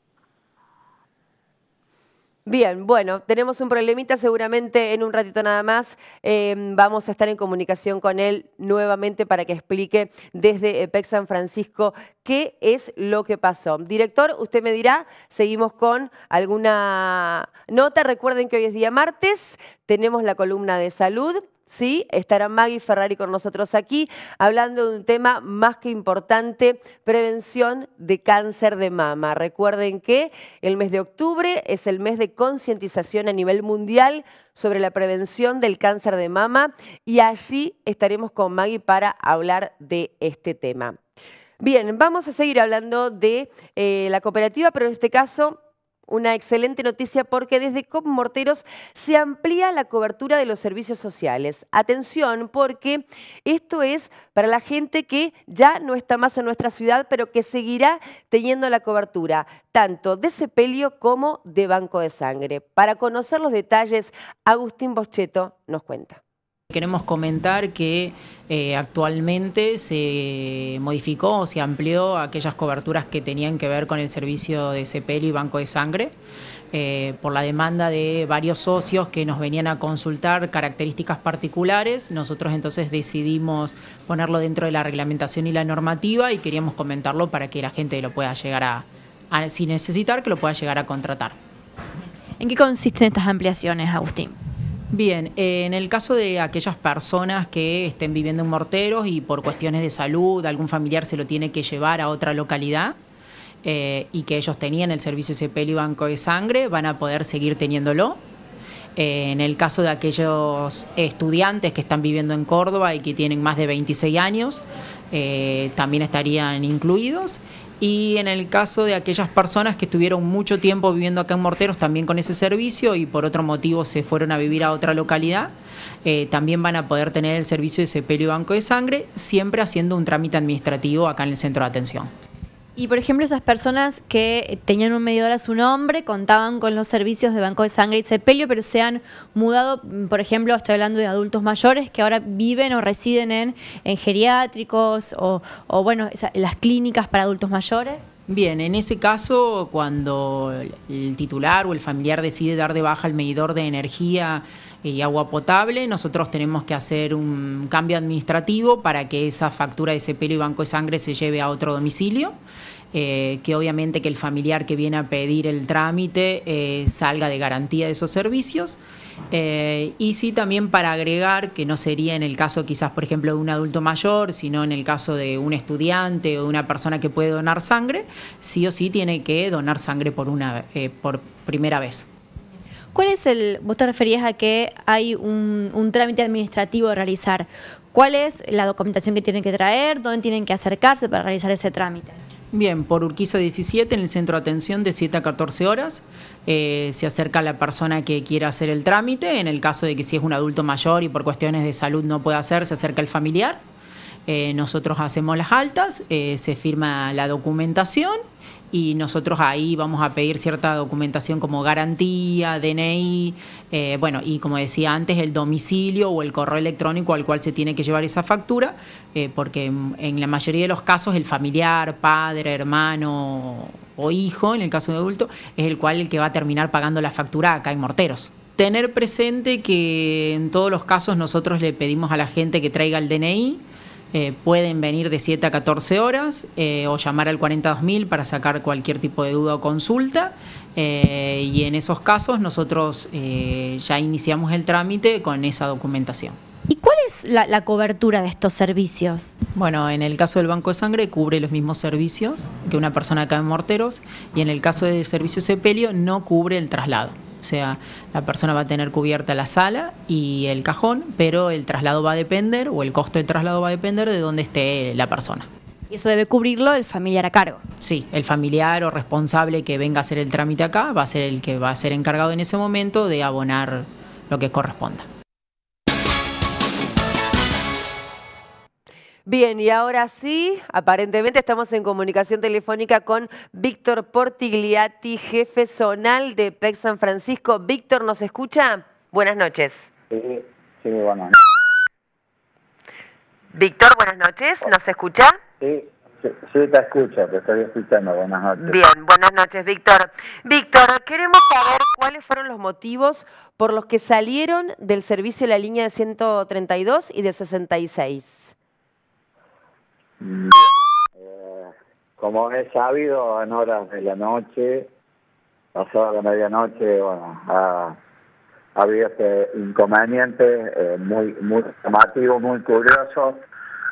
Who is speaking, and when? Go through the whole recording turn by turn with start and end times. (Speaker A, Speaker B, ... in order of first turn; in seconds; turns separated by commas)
Speaker A: 2.5-41.0, Speaker A: 41.6-66.2, Speaker B: 66.7-76.1, Speaker B: 76.7-91.4, Speaker C: 92.4-94.4, Speaker B: 94.9-103.0, Speaker B: 103.6-108.2, Speaker B: 109.0-125.5, Speaker B: 126.0-132.1, Speaker C: 132.8-148.0, Speaker B: 148.3-162.4, Speaker B: 162.9-168.8, Speaker B: 169.3-182.1, Speaker C: 182.9-192.2, Speaker B: 192.5-203.6, Speaker B: 204.3-246.4, Speaker C: 246.7-249.4, Speaker B: 249.5-265.5, Speaker C: 265.9-267.6, Speaker B: 267.8-275.1, Speaker A: 279.2-289.8, Speaker D: 290.1-291.4, Speaker A: 293.5-295.4, Speaker D: 295.6-298.8, Speaker A: 298.6-308.5, Speaker D: 310.2-314.9, Speaker D: 315.7-318.0, Speaker D: 318.8-323.4